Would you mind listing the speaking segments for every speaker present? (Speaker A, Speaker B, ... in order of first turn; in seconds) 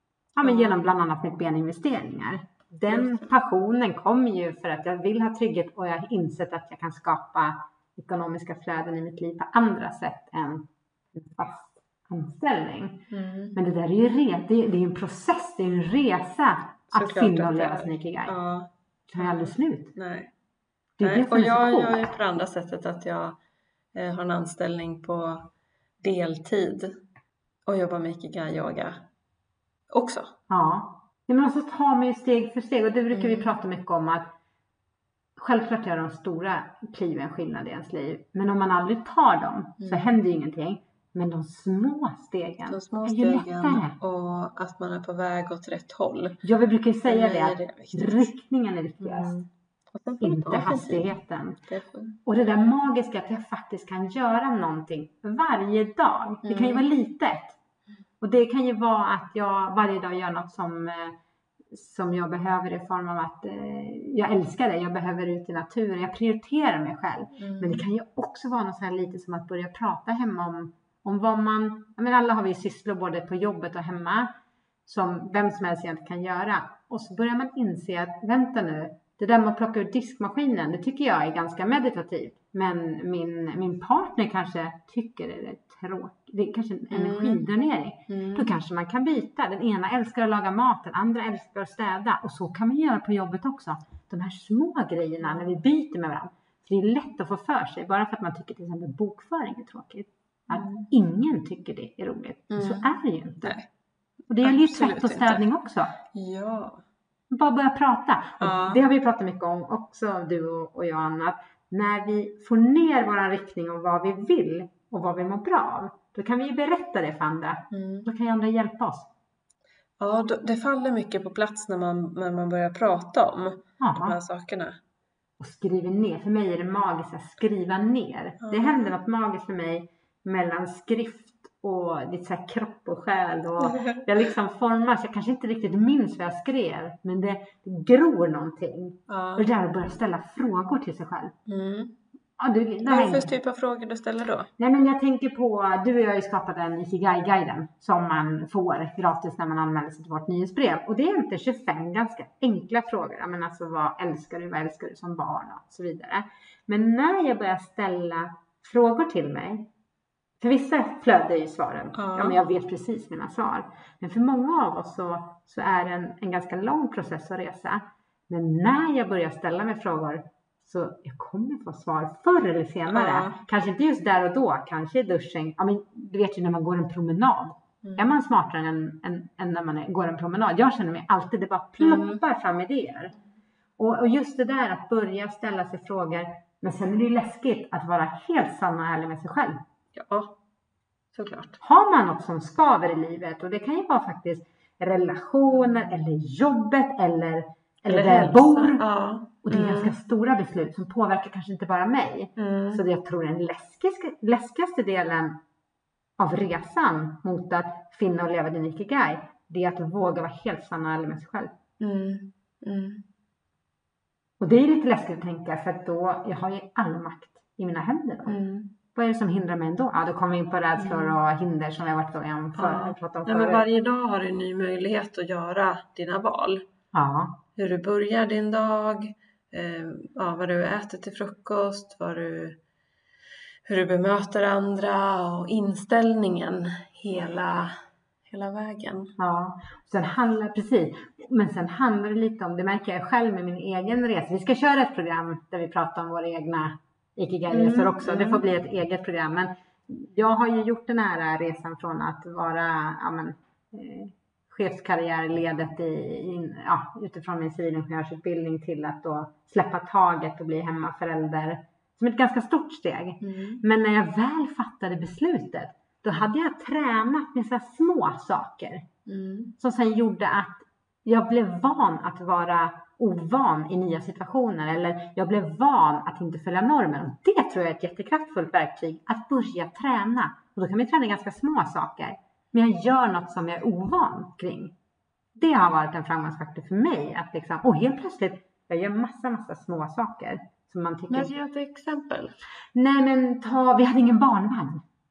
Speaker A: 0.4-13.0, 13.5-18.3, 19.1-19.9, 21.0-22.1, 30.5-34.3, 35.4-44.0, 46.4-49.4, 50.2-51.6, 52.2-57.5, 58.2-61.2, 61.7-74.3, 74.8-103.5, 104.3-105.9, 107.3-119.1, 123.8-124.2, 125.4-141.3, 142.4-143.3, 144.6-159.7, 160.4-183.1, 183.8-189.6, 191.6-198.8, 199.4-205.4, 206.2-211.5, 214.4-218.4, 218.9-223.6, 226.9-227.4, 239.2-268.8, 269.6-284.7, 285.4-291.3, 292.7-294.8
Speaker B: 0.4-0.8, 2.9-3.2, 13.1-13.6, 16.9-20.3, 21.0-23.4, 23.9-25.5, 26.0-26.9, 27.7-29.0, 29.9-30.3, 33.1-33.5, 39.8-40.1, 42.7-46.4, 47.1-48.3, 49.0-51.1, 51.7-52.2, 56.4-56.9, 67.4-67.8, 86.9-87.5, 88.1-88.5, 95.2-95.6, 100.5-100.9, 102.5-102.8, 104.4-105.4, 106.1-106.8, 108.4-108.8, 117.7-118.1, 120.0-124.8, 128.4-128.9, 133.6-134.0, 139.1-139.5, 141.5-141.9, 142.8-144.5, 161.9-162.4, 172.9-173.3, 177.8-178.2, 181.8-182.2, 189.9-190.4, 191.1-191.6, 197.8-199.9, 202.4-202.8, 211.8-213.0, 218.3-218.7, 220.8-221.2, 222.6-226.6, 227.6-232.6, 233.7-237.7, 238.3-239.1, 247.5-248.4, 263.2-263.6, 269.1-269.5, 291.1-292.4